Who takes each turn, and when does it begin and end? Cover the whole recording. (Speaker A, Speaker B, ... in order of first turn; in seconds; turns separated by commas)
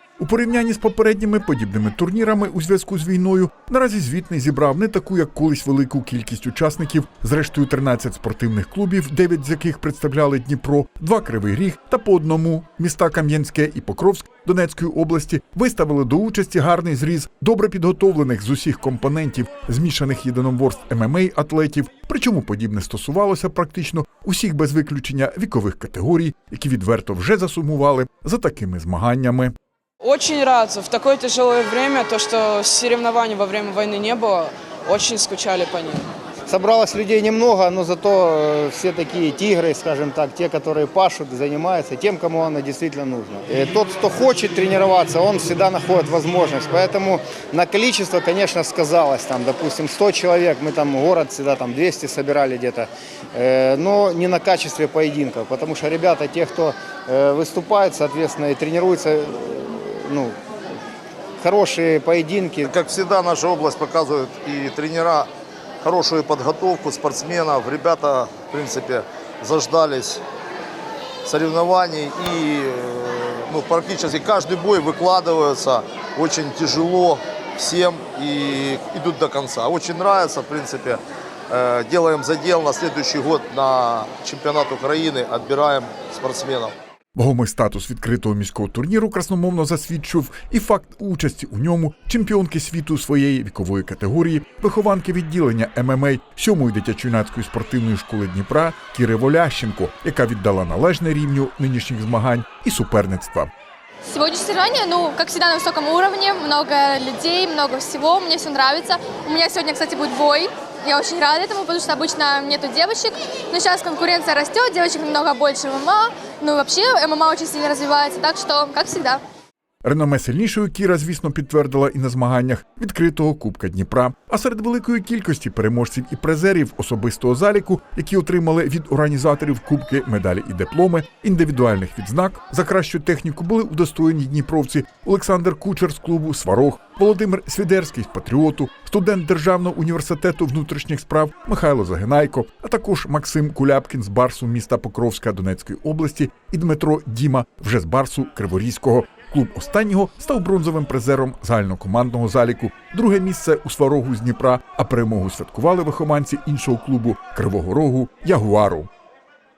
Speaker A: 0.2-29.5, Speaker B: 30.0-36.0, Speaker C: 36.5-60.4, Speaker C: 61.4-62.7, Speaker D: 62.7-65.3, Speaker D: 65.8-70.2, Speaker D: 71.2-86.7, Speaker A: 87.1-103.5, Speaker E: 104.1-119.2, Speaker A: 119.8-158.9